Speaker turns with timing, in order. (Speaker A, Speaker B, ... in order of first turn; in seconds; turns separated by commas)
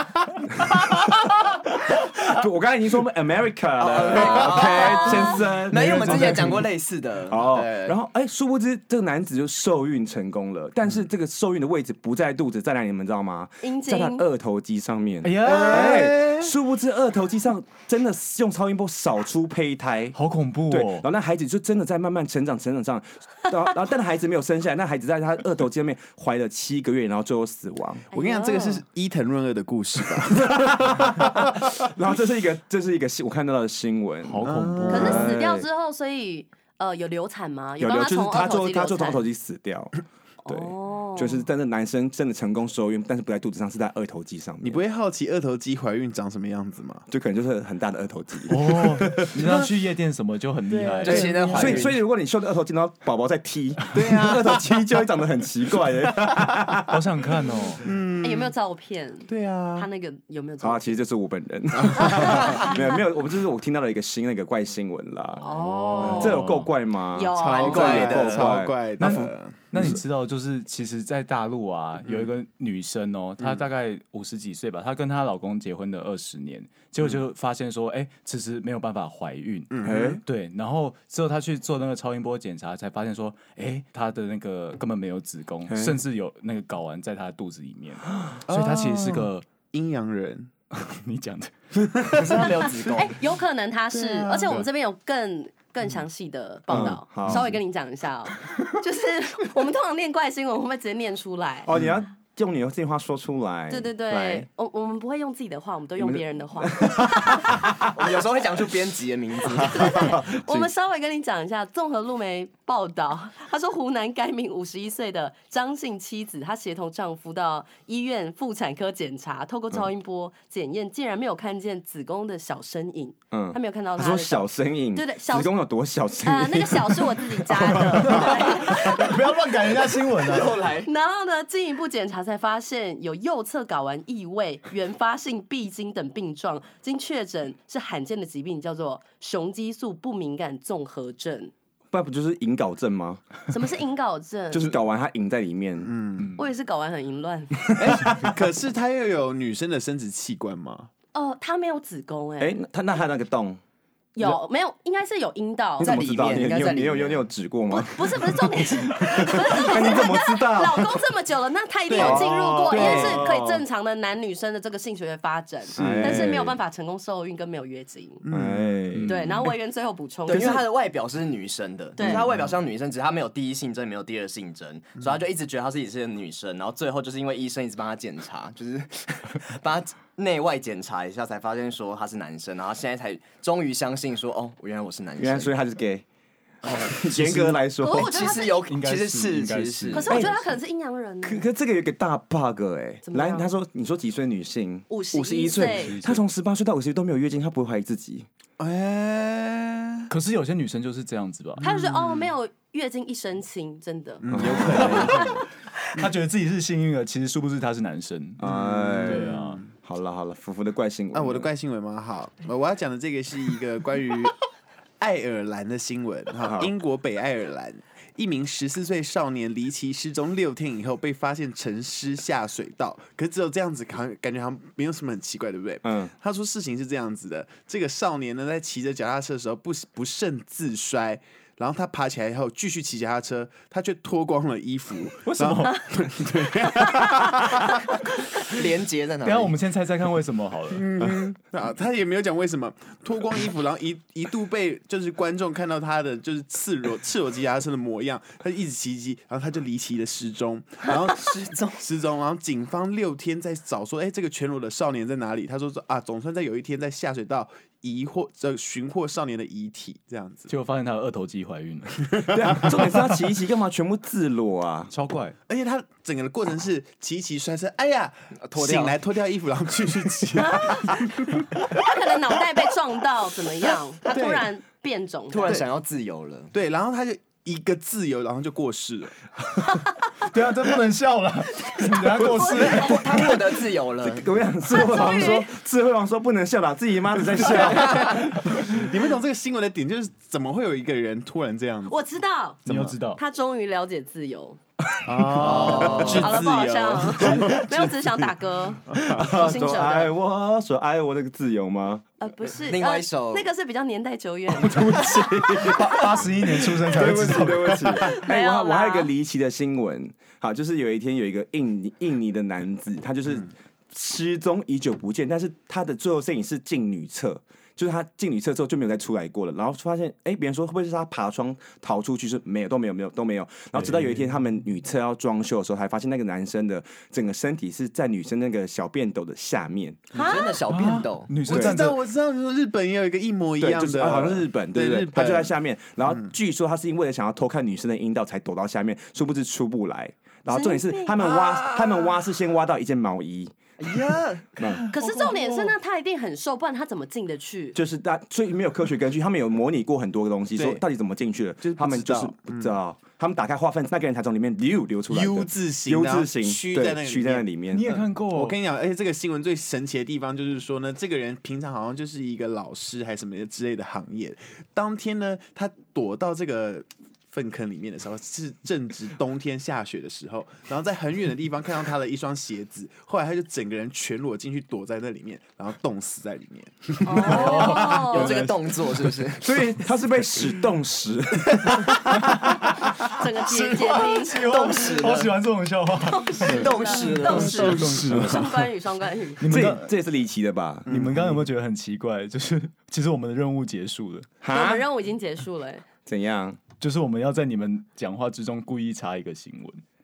Speaker A: 0.7-6.4, Speaker B: 3.8-8.0, Speaker C: 4.1-5.5, Speaker D: 5.6-6.7, Speaker A: 7.3-20.2, Speaker C: 13.6-14.2, Speaker D: 15.2-16.2, Speaker E: 15.4-16.5, Speaker D: 20.1-21.1, Speaker A: 20.7-28.1, Speaker C: 28.1-28.8, Speaker E: 28.1-31.5, Speaker A: 30.7-35.7, Speaker D: 34.2-35.2, Speaker E: 34.5-35.2, Speaker C: 34.9-39.2, Speaker A: 37.8-44.8, Speaker C: 40.4-41.5, Speaker E: 44.6-47.1, Speaker A: 47.1-49.3, Speaker D: 48.5-51.9, Speaker C: 50.7-51.7, Speaker B: 51.0-52.0, Speaker A: 51.1-57.0, Speaker E: 51.1-51.9, Speaker E: 53.9-54.9, Speaker D: 56.9-57.8, Speaker E: 57.8-58.5, Speaker C: 58.2-61.1, Speaker E: 59.3-59.9, Speaker A: 60.6-65.5, Speaker C: 62.1-62.8, Speaker C: 65.4-66.4, Speaker D: 65.9-66.7, Speaker A: 66.0-69.3, Speaker C: 67.1-68.3, Speaker E: 67.4-70.0, Speaker D: 69.0-89.5, Speaker E: 79.7-80.2, Speaker A: 79.8-80.2, Speaker A: 85.7-86.0, Speaker E: 88.5-90.5, Speaker D: 90.7-92.5, Speaker B: 92.2-93.2, Speaker C: 92.5-101.7, Speaker E: 93.9-94.7, Speaker A: 96.7-97.5, Speaker D: 96.8-97.5, Speaker A: 101.7-104.3, Speaker C: 103.7-107.9, Speaker B: 104.1-104.5, Speaker A: 106.0-107.9, Speaker B: 108.0-110.0, Speaker A: 109.5-110.7, Speaker C: 109.5-125.5, Speaker A: 123.3-128.3, Speaker C: 126.2-129.9, Speaker D: 127.9-130.7, Speaker B: 130.3-130.9, Speaker C: 130.8-141.5, Speaker A: 141.9-143.3, Speaker C: 143.5-144.8, Speaker A: 144.5-145.9, Speaker E: 145.8-146.3, Speaker D: 146.2-146.5, Speaker C: 146.4-147.7, Speaker E: 147.8-150.9, Speaker C: 151.1-152.6, Speaker A: 152.4-153.6, Speaker C: 154.2-156.5, Speaker B: 155.8-157.3, Speaker A: 155.8-158.5, Speaker C: 157.7-168.2, Speaker A: 159.1-160.9, Speaker E: 161.9-163.3, Speaker A: 161.9-163.6, Speaker E: 165.8-166.4, Speaker A: 165.8-166.6, Speaker E: 168.2-169.0, Speaker A: 168.3-169.3, Speaker D: 168.9-169.4, Speaker C: 169.1-170.7, Speaker A: 170.3-170.6, Speaker B: 170.3-185.5, Speaker C: 172.0-172.3, Speaker E: 172.1-172.5, Speaker A: 185.2-186.1, Speaker B: 186.7-186.9, Speaker A: 186.8-188.1, Speaker D: 186.9-187.7, Speaker C: 187.7-188.7, Speaker B: 187.9-190.1, Speaker D: 188.7-190.6, Speaker C: 189.9-191.5, Speaker A: 190.1-190.4, Speaker A: 191.2-198.3, Speaker C: 193.0-193.5, Speaker C: 194.9-196.0, Speaker D: 195.5-196.2, Speaker E: 198.6-200.1, Speaker D: 200.1-201.6, Speaker E: 201.6-202.3, Speaker C: 201.6-205.4, Speaker E: 204.2-205.4, Speaker A: 204.3-205.0, Speaker D: 204.3-205.3, Speaker D: 205.8-208.4, Speaker A: 208.4-209.3, Speaker E: 208.4-209.7, Speaker D: 209.0-209.6, Speaker A: 209.8-211.5, Speaker E: 211.1-214.4, Speaker E: 215.0-237.8, Speaker A: 216.5-216.7, Speaker A: 225.8-226.1, Speaker D: 235.3-235.8, Speaker C: 236.8-237.7, Speaker B: 238.4-239.6, Speaker D: 239.2-240.9, Speaker E: 240.7-260.5, Speaker B: 250.9-251.8, Speaker D: 260.5-262.2, Speaker A: 262.3-264.9, Speaker E: 262.7-263.0, Speaker D: 264.9-265.4, Speaker E: 265.5-271.6, Speaker B: 268.5-269.0, Speaker C: 270.4-271.0, Speaker C: 271.7-275.6, Speaker E: 274.1-274.5, Speaker B: 275.3-276.5, Speaker E: 276.5-279.3, Speaker D: 280.2-283.4, Speaker C: 282.1-283.1, Speaker B: 282.4-284.5, Speaker A: 284.0-288.6, Speaker C: 284.6-285.6, Speaker E: 287.4-292.0, Speaker B: 287.6-288.0, Speaker C: 291.9-294.6, Speaker E: 292.7-293.0, Speaker D: 292.7-293.2, Speaker E: 295.1-297.9, Speaker D: 295.3-296.3, Speaker B: 295.4-296.3, Speaker C: 295.7-300.1, Speaker A: 297.2-297.5, Speaker A: 298.9-302.1, Speaker E: 298.9-299.2, Speaker C: 302.2-305.5, Speaker B: 302.5-303.5, Speaker A: 304.6-306.0, Speaker D: 305.6-308.0, Speaker A: 306.9-330.2, Speaker C: 308.0-309.1, Speaker D: 323.8-324.3, Speaker B: 330.1-331.3, Speaker C: 330.2-330.6, Speaker D: 330.7-332.0, Speaker E: 331.5-336.3, Speaker A: 331.5-331.9, Speaker A: 333.6-343.6, Speaker C: 340.5-342.0, Speaker B: 343.8-345.7, Speaker A: 344.6-344.9, Speaker C: 344.9-347.8, Speaker A: 347.7-357.9, Speaker E: 350.5-350.8, Speaker E: 351.8-352.8, Speaker E: 355.1-377.9, Speaker D: 357.7-358.6, Speaker C: 377.1-378.3, Speaker D: 377.1-379.2, Speaker B: 378.0-379.5, Speaker A: 379.4-383.1, Speaker C: 383.1-384.6, Speaker D: 383.5-388.7, Speaker B: 384.3-385.4, Speaker C: 386.0-389.5, Speaker B: 386.5-387.5, Speaker E: 386.6-388.4, Speaker D: 389.4-389.9, Speaker A: 389.5-390.9, Speaker E: 390.9-391.4, Speaker D: 390.9-394.4, Speaker A: 394.4-394.9, Speaker C: 394.5-395.8, Speaker A: 396.1-396.6, Speaker D: 396.8-399.8